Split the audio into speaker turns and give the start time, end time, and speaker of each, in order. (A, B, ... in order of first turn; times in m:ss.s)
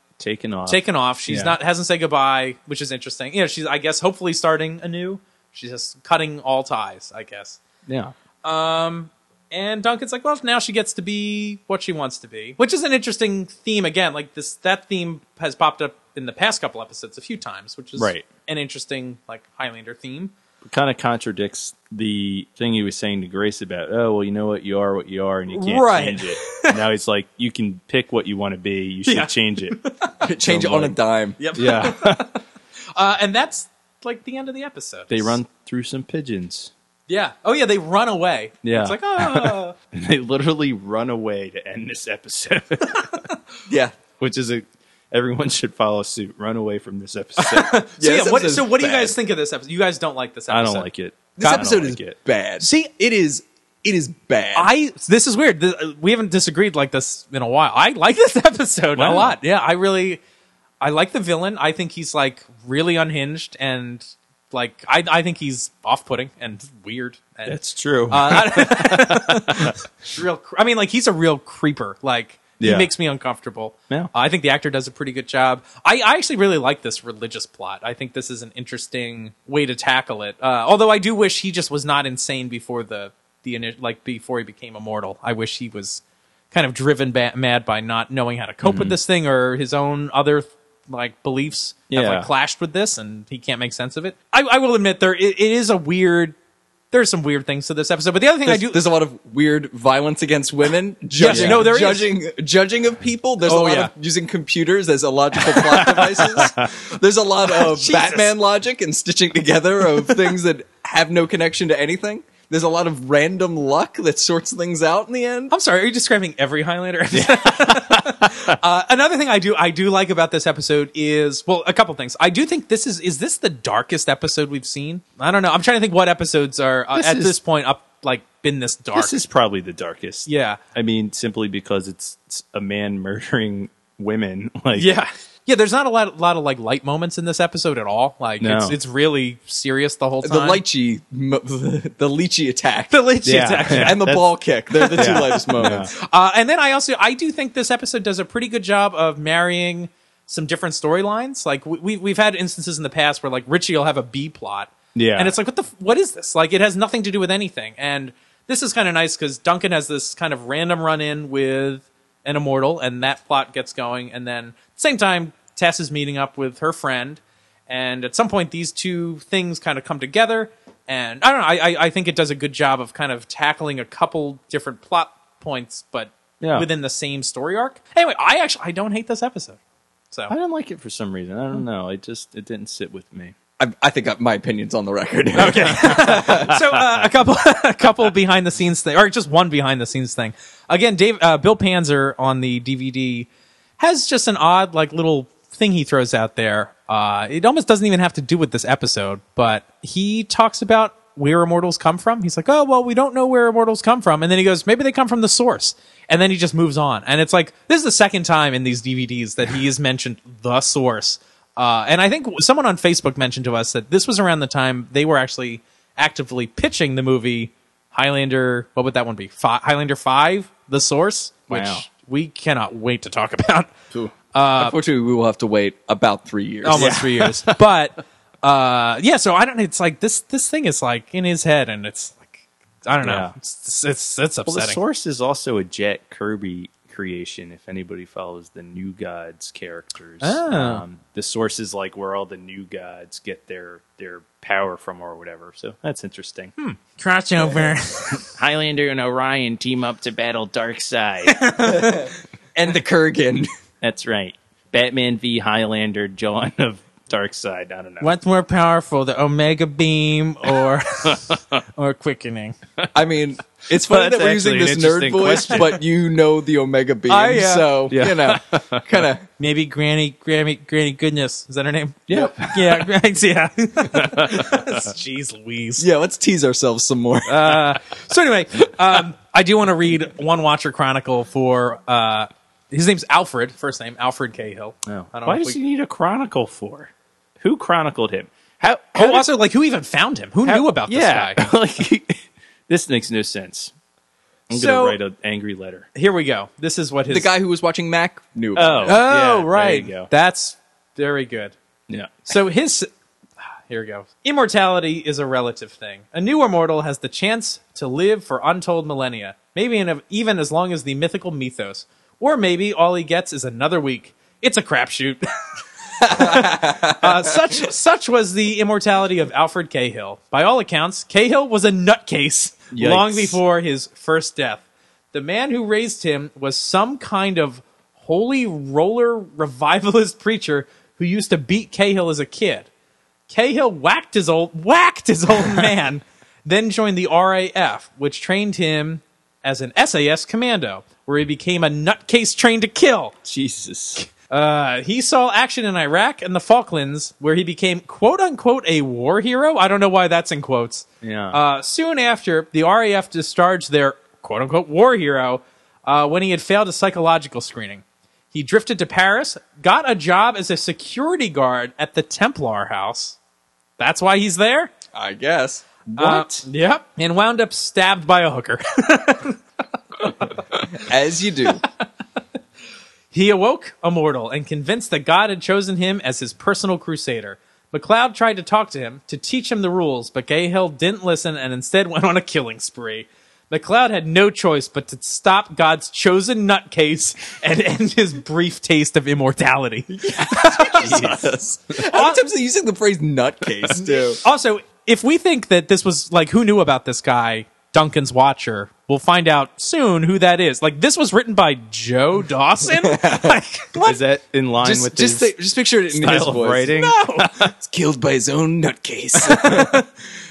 0:00.2-0:01.6 A
0:00.6-0:07.6 B
0:07.8-0:08.1 A
0:08.4-0:20.3 B
0:18.0-0:18.3 A
0:20.6-0:29.8 A
0:25.5-0:26.8 B
0:29.0-0:30.2 B
0:30.2-0:31.4 C
0:30.4-0:31.0 A
0:31.4-0:32.4 B
0:31.5-0:32.3 A
0:33.0-0:35.4 B
0:35.1-0:36.7 A
0:37.1-0:39.7 B
0:38.6-0:43.2 A
0:43.7-0:43.9 C
0:44.2-0:47.8 A
0:47.4-0:50.9 B
0:48.0-0:49.1 C
0:50.5-0:52.2 A
0:51.4-0:54.7 C
0:52.6-0:52.9 B
0:54.5-1:00.2 B
0:59.0-0:59.4 A
1:00.8-1:36.4 B
1:07.4-1:09.8 A
1:12.6-1:12.9 A
1:28.6-1:29.0 A
1:31.9-1:32.3 A
1:36.9-1:38.8 B
1:38.4-1:55.5 C
1:41.2-1:42.1 B
1:41.2-1:41.7 A
1:43.4-1:43.9 B
1:45.6-1:46.7 A
1:47.5-1:48.3 B
1:55.5-2:09.2 B
1:57.1-1:58.5 A
2:06.9-2:07.4 A
2:08.9-2:14.9 A
2:10.2-2:10.6 B
2:14.7-2:20.6 B
2:18.4-2:18.8 A
2:20.2-2:23.0 C
2:22.9-2:24.0 B
2:23.2-2:24.2 A
2:23.6-2:25.9 C
2:24.7-2:59.6 B
2:24.9-2:25.9 A
2:34.9-2:35.3 A
2:56.4-2:56.7 A
3:00.3-3:03.3 A
3:03.6-3:06.5 C
3:05.4-3:13.3 B
3:05.4-3:07.0 A
3:13.8-3:43.7 B
3:41.5-3:41.8 A
3:44.3-3:44.7 B
3:44.6-3:46.9 C
3:46.6-3:54.8 B
3:46.7-3:47.6 A
3:53.0-3:53.3 A
3:54.5-4:06.5 A
4:00.2-4:00.8 B
4:06.6-4:08.3 B
4:08.0-4:11.6 A
4:11.3-4:11.9 B
4:11.6-4:13.5 C
4:13.8-4:18.1 A
4:18.0-4:22.6 B
4:22.9-4:29.2 C
4:23.6-4:25.8 A
4:27.1-4:27.7 B
4:27.9-4:29.0 A
4:29.4-4:35.8 B
4:32.1-4:32.9 A
4:33.9-4:34.8 A
4:35.8-4:37.7 C
4:37.3-4:45.6 B
4:44.8-4:49.3 A
4:49.0-4:51.5 B
4:50.4-4:53.7 A
4:54.5-4:55.8 A
4:54.5-4:55.0 B
4:55.9-4:57.3 B
4:57.1-4:59.0 C
4:58.5-5:00.1 A
4:58.8-5:01.5 B
5:01.9-5:02.3 A
5:02.2-5:02.9 B
5:03.7-5:15.2 B
5:16.0-5:32.7 B
5:16.1-5:16.9 C
5:22.7-5:23.4 A
5:33.3-5:43.1 B
5:43.2-5:44.0 A
5:44.0-6:03.2 B
5:51.0-5:51.4 A
6:03.8-6:04.7 B
6:04.9-6:05.6 C
6:05.9-6:06.4 A
6:06.0-6:09.4 B
6:10.0-6:10.4 B
6:10.8-6:11.6 C
6:13.1-6:31.2 B
6:29.9-6:34.2 C
6:30.8-6:31.2 A
6:31.8-6:32.2 B
6:33.8-6:44.0 B
6:42.8-6:43.4 C
6:43.8-6:45.3 A
6:44.6-6:46.8 C
6:45.9-6:47.5 A
6:46.7-6:47.3 B
6:47.5-6:49.8 C
6:49.2-6:49.8 B